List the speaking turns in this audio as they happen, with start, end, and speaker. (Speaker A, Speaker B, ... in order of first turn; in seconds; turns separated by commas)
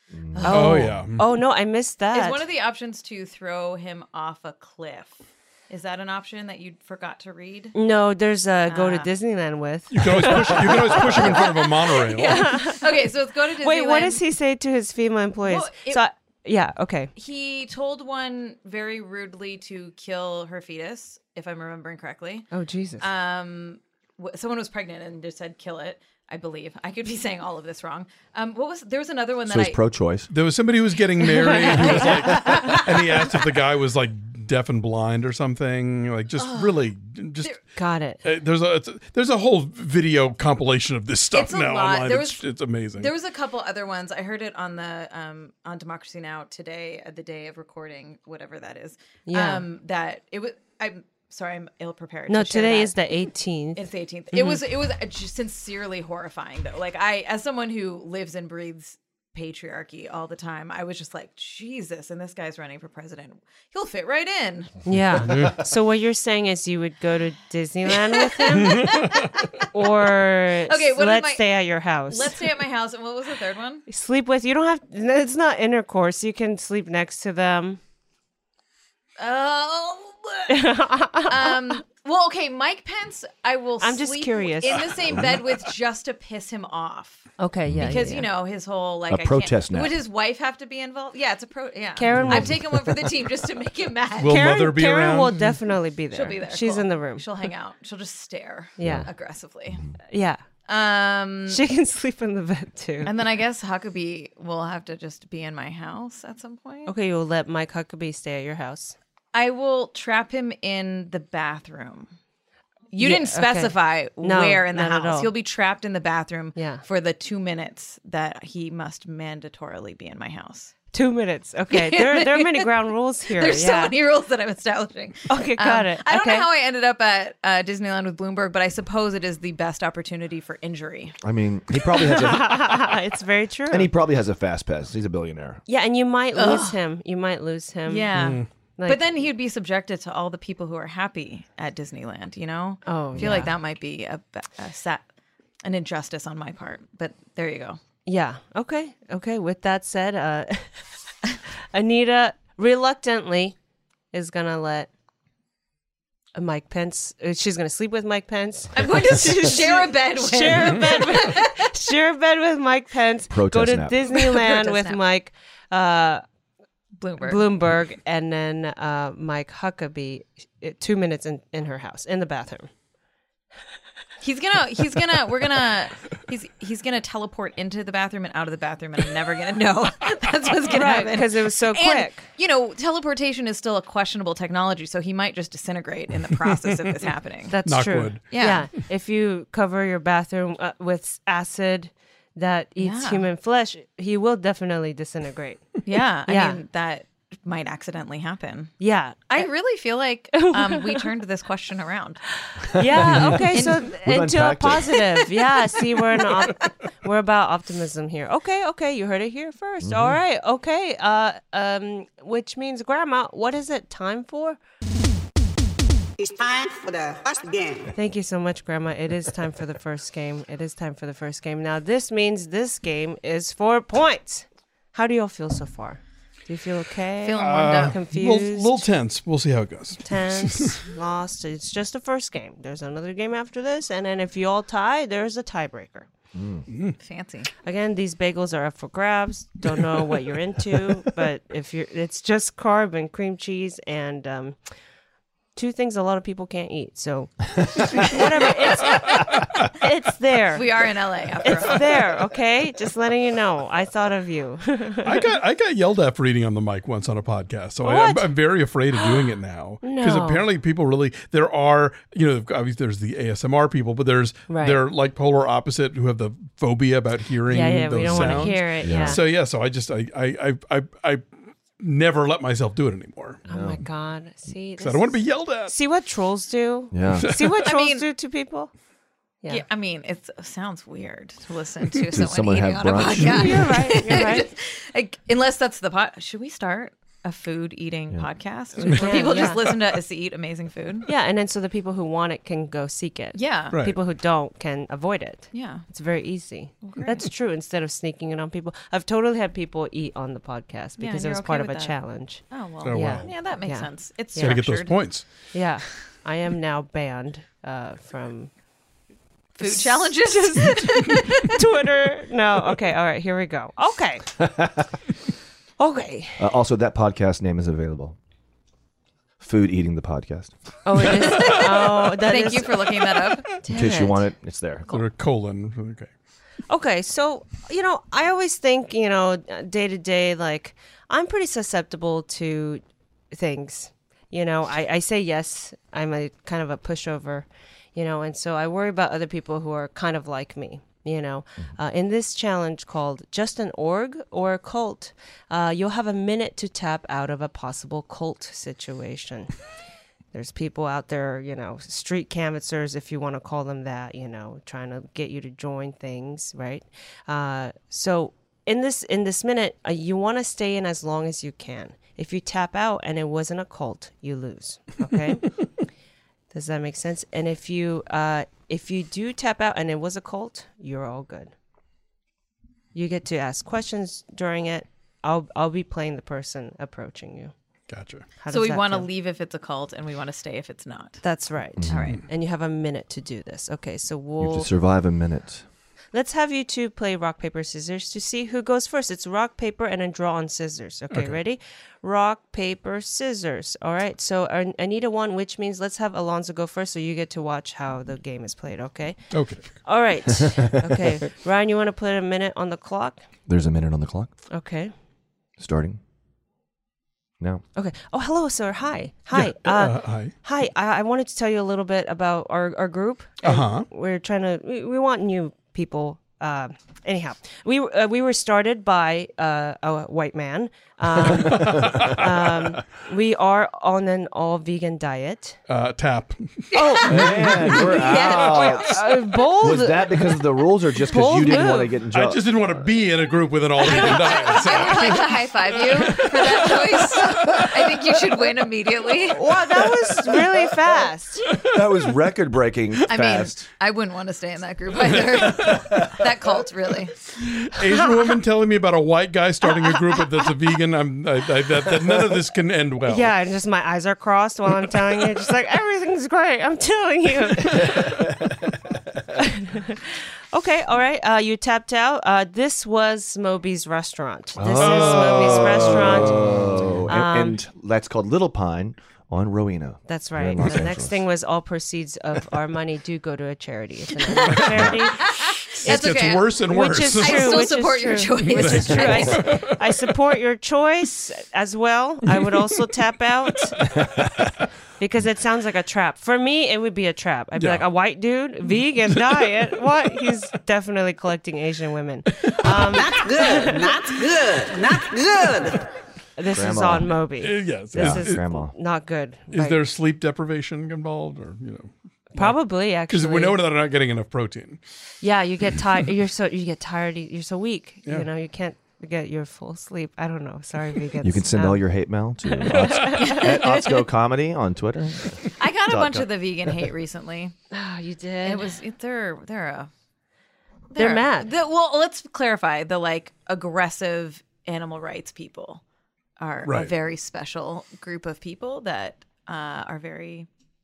Speaker A: 0.1-0.5, Speaker B: 0.3-0.8, Speaker C: 0.4-2.4, Speaker D: 0.5-1.2, Speaker B: 2.1-7.7, Speaker C: 7.7-17.1, Speaker B: 8.7-9.1, Speaker D: 9.9-12.5, Speaker B: 12.0-14.2, Speaker B: 15.4-16.0, Speaker B: 17.1-22.4, Speaker C: 22.5-23.1, Speaker B: 23.0-29.8, Speaker A: 29.5-30.3, Speaker D: 30.3-37.5, Speaker C: 31.3-32.8, Speaker B: 31.5-33.0, Speaker B: 36.4-36.9, Speaker C: 37.8-38.2, Speaker D: 38.2-43.1, Speaker B: 41.3-42.4, Speaker B: 43.0-52.9, Speaker C: 49.3-49.6, Speaker C: 52.3-54.6, Speaker B: 53.8-64.7, Speaker C: 64.8-72.4, Speaker B: 67.9-69.7, Speaker B: 70.7-71.5, Speaker B: 72.1-73.8, Speaker C: 73.9-77.8, Speaker B: 79.2-87.3, Speaker C: 80.5-81.8, Speaker C: 83.8-85.0, Speaker C: 87.4-88.3, Speaker A: 87.7-88.0, Speaker B: 87.8-94.4, Speaker A: 89.1-90.0, Speaker C: 92.0-92.6, Speaker A: 92.2-92.9, Speaker D: 94.2-95.4, Speaker C: 94.2-97.2, Speaker B: 96.1-99.8, Speaker C: 98.8-99.1, Speaker A: 98.8-99.1, Speaker C: 100.1-100.4, Speaker B: 100.7-101.6, Speaker C: 101.5-103.1, Speaker B: 103.0-106.9, Speaker C: 106.8-109.0, Speaker B: 109.3-112.1, Speaker B: 112.9-120.7, Speaker C: 113.0-115.3, Speaker C: 116.5-116.8, Speaker C: 120.9-123.9, Speaker B: 121.7-122.7, Speaker B: 123.3-131.2, Speaker C: 125.3-126.5, Speaker A: 131.2-132.9, Speaker C: 132.1-133.9, Speaker A: 133.7-135.6, Speaker C: 135.7-138.1, Speaker B: 136.3-136.8, Speaker B: 137.8-145.1, Speaker D: 138.1-138.4, Speaker C: 138.8-139.1, Speaker C: 142.8-143.5, Speaker B: 145.6-147.8, Speaker C: 148.1-150.8, Speaker C: 151.7-153.6, Speaker C: 154.1-154.9, Speaker C: 156.3-166.2, Speaker B: 158.7-161.7, Speaker A: 163.3-164.0, Speaker B: 164.1-165.0, Speaker B: 167.0-167.5, Speaker C: 167.2-172.7, Speaker B: 174.2-187.6, Speaker C: 180.6-182.3, Speaker C: 187.5-195.8, Speaker D: 187.7-188.2, Speaker B: 188.3-188.6, Speaker B: 192.8-193.2, Speaker B: 195.8-198.7, Speaker C: 196.3-196.6, Speaker C: 198.8-199.5, Speaker B: 199.3-202.2, Speaker C: 200.4-201.0, Speaker C: 202.7-214.6, Speaker A: 202.8-204.9, Speaker B: 203.5-203.9, Speaker B: 204.9-205.6, Speaker A: 209.8-210.2, Speaker E: 216.2-217.9, Speaker C: 217.9-228.9, Speaker B: 227.2-227.9, Speaker D: 227.4-230.8, Speaker C: 230.0-236.1, Speaker A: 236.3-236.6, Speaker D: 236.7-236.9, Speaker B: 237.0-237.5, Speaker C: 237.6-244.6, Speaker C: 245.5-250.9, Speaker B: 250.5-252.1, Speaker C: 251.4-255.3, Speaker D: 255.0-271.2, Speaker C: 257.8-258.3, Speaker C: 259.8-260.4, Speaker C: 264.5-264.8, Speaker C: 267.4-269.2, Speaker A: 268.1-269.2, Speaker D: 271.8-273.4, Speaker C: 273.5-278.7, Speaker A: 273.5-273.8, Speaker D: 274.8-275.7, Speaker A: 276.9-277.3, Speaker D: 277.1-277.5, Speaker B: 277.6-278.0, Speaker B: 279.5-291.1, Speaker A: 282.1-283.7, Speaker C: 283.2-284.5, Speaker C: 288.8-289.6, Speaker C: 291.1-304.6, Speaker B: 293.3-293.7, Speaker D: 293.7-294.0, Speaker B: 295.5-295.8, Speaker B: 296.8-297.3, Speaker B: 301.0-302.0, Speaker B: 302.5-304.9, Speaker D: 302.8-303.3, Speaker D: 304.4-305.2, Speaker C: 305.5-308.5, Speaker C: 309.6-314.3, Speaker B: 309.6-311.6, Speaker A: 314.4-314.7, Speaker C: 315.8-316.5, Speaker A: 316.4-318.2, Speaker A: 319.4-320.5, Speaker C: 320.8-323.0, Speaker B: 321.3-323.5, Speaker C: 323.6-324.2, Speaker A: 323.7-324.9, Speaker D: 324.9-326.1, Speaker C: 326.7-349.5, Speaker C: 350.3-365.6, Speaker C: 366.5-371.5, Speaker C: 372.9-377.5, Speaker D: 377.9-378.3, Speaker C: 378.4-379.1, Speaker B: 378.5-381.2, Speaker C: 381.2-384.7, Speaker A: 381.8-382.1, Speaker B: 381.8-382.2, Speaker A: 384.4-385.6, Speaker C: 386.1-403.2, Speaker D: 399.3-399.6, Speaker A: 403.5-404.3, Speaker C: 404.5-404.9, Speaker A: 405.6-406.0, Speaker A: 407.4-407.6, Speaker C: 407.7-425.6, Speaker D: 409.3-410.3, Speaker D: 413.4-413.9, Speaker A: 421.2-422.2, Speaker D: 421.5-422.2, Speaker D: 425.7-426.6, Speaker B: 426.7-428.9, Speaker C: 426.7-430.5, Speaker A: 427.1-429.1, Speaker D: 427.2-427.8, Speaker A: 429.6-432.8, Speaker C: 431.0-432.0, Speaker D: 432.1-435.4, Speaker B: 433.8-439.4, Speaker D: 436.0-437.8, Speaker C: 439.3-441.5, Speaker A: 441.6-443.7, Speaker B: 443.1-447.1, Speaker D: 447.4-453.3, Speaker C: 447.8-448.2, Speaker C: 453.1-458.4, Speaker C: 459.4-466.5, Speaker A: 464.6-471.1, Speaker D: 464.8-466.9, Speaker C: 467.1-467.6, Speaker C: 470.1-483.8, Speaker B: 474.3-479.5, Speaker D: 475.7-477.8, Speaker D: 478.3-479.7, Speaker C: 485.0-493.9, Speaker D: 487.6-487.9, Speaker D: 492.4-492.9, Speaker E: 492.6-495.9, Speaker C: 496.4-499.8, Speaker A: 496.5-497.1, Speaker D: 497.4-498.4, Speaker A: 497.9-498.7, Speaker D: 499.5-502.6, Speaker C: 502.3-503.6, Speaker D: 503.1-504.8, Speaker C: 505.2-511.8, Speaker A: 511.2-516.7, Speaker C: 512.6-513.6, Speaker D: 512.7-513.1, Speaker B: 513.1-514.0, Speaker B: 515.6-517.5, Speaker C: 517.7-518.7, Speaker B: 518.4-519.9, Speaker C: 520.9-521.5, Speaker B: 520.9-525.8, Speaker B: 526.4-530.5, Speaker D: 526.6-526.9